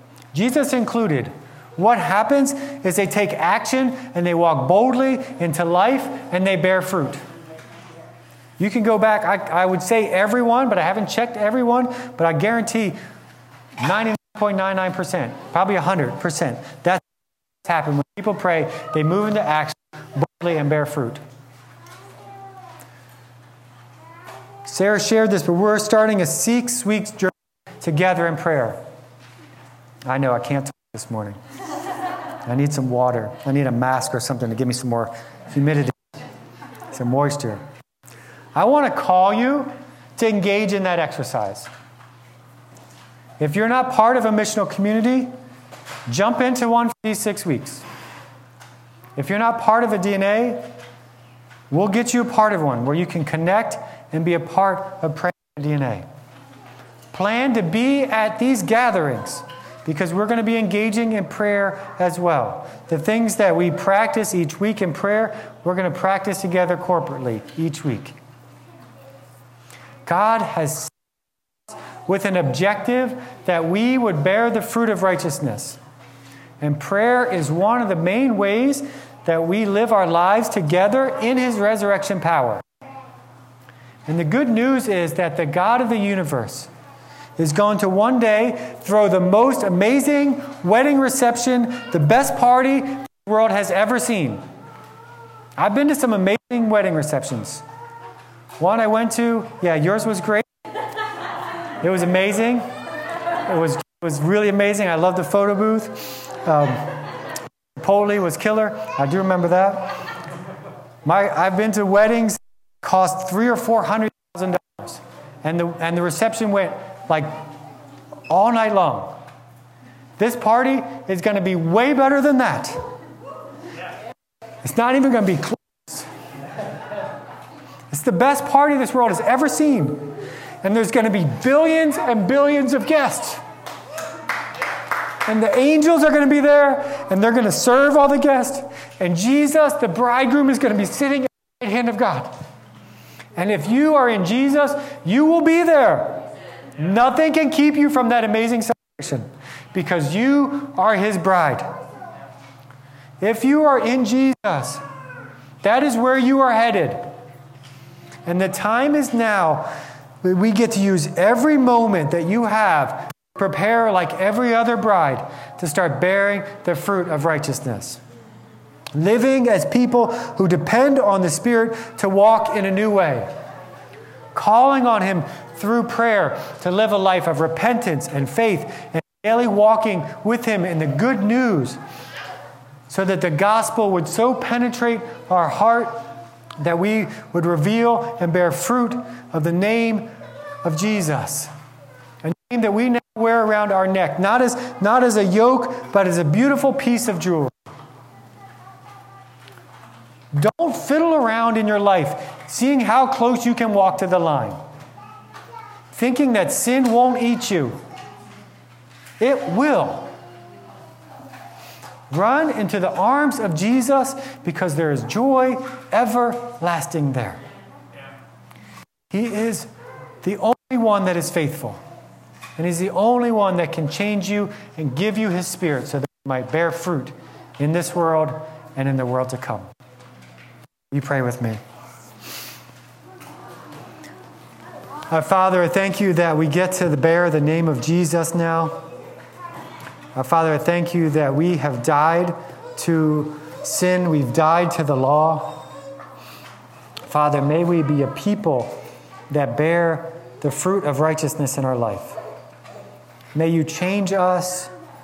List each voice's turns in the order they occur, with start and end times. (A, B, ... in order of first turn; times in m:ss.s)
0:00.3-0:07.2 A
0:08.6-0:13.0 A
0:13.8-0:17.0 A
0:17.6-0:21.2 A
0:24.6-0:28.8 A
0:30.0-0:31.4 A
0:32.4-0:36.0 A
0:36.9-0:37.6 A
0:38.5-0:41.7 A
0:43.4-0:45.3 A
0:46.1-0:47.8 A
0:49.2-0:50.6 A
0:51.7-0:56.0 A
0:57.1-1:08.1 A
1:10.0-1:10.9 A
1:11.7-1:15.8 A
1:16.6-1:22.6 A
1:24.0-1:26.7 A
1:27.4-1:34.4 A
1:35.6-1:37.6 A
1:38.6-1:40.4 A
1:41.8-1:42.6 A
1:43.4-1:47.0 A
1:47.8-1:50.0 A
1:51.0-1:57.4 A
1:58.3-1:59.2 A
2:00.2-2:02.8 A
2:04.6-2:06.1 A
2:07.9-2:13.4 A
2:15.2-2:22.3 A
2:23.4-2:26.2 A
2:26.8-2:31.7 A
2:33.2-2:34.8 A
2:35.6-2:37.0 A
2:38.2-2:39.7 A
2:40.2-2:48.0 A
2:48.9-2:53.3 A
2:54.3-3:01.8 A
3:02.9-3:06.0 A
3:06.6-3:10.1 A
3:10.6-3:11.5 A
3:12.2-3:17.6 A
3:20.3-3:24.6 A
3:25.9-3:27.8 A
3:29.2-3:30.1 A
3:32.1-3:37.4 A
3:39.1-3:39.7 A
3:40.2-3:41.8 A
3:42.6-3:49.7 A
3:50.9-3:51.6 A
3:55.1-3:58.8 A
4:00.1-4:05.6 A
4:07.1-4:08.8 A
4:09.3-4:12.2 A
4:13.3-4:14.7 A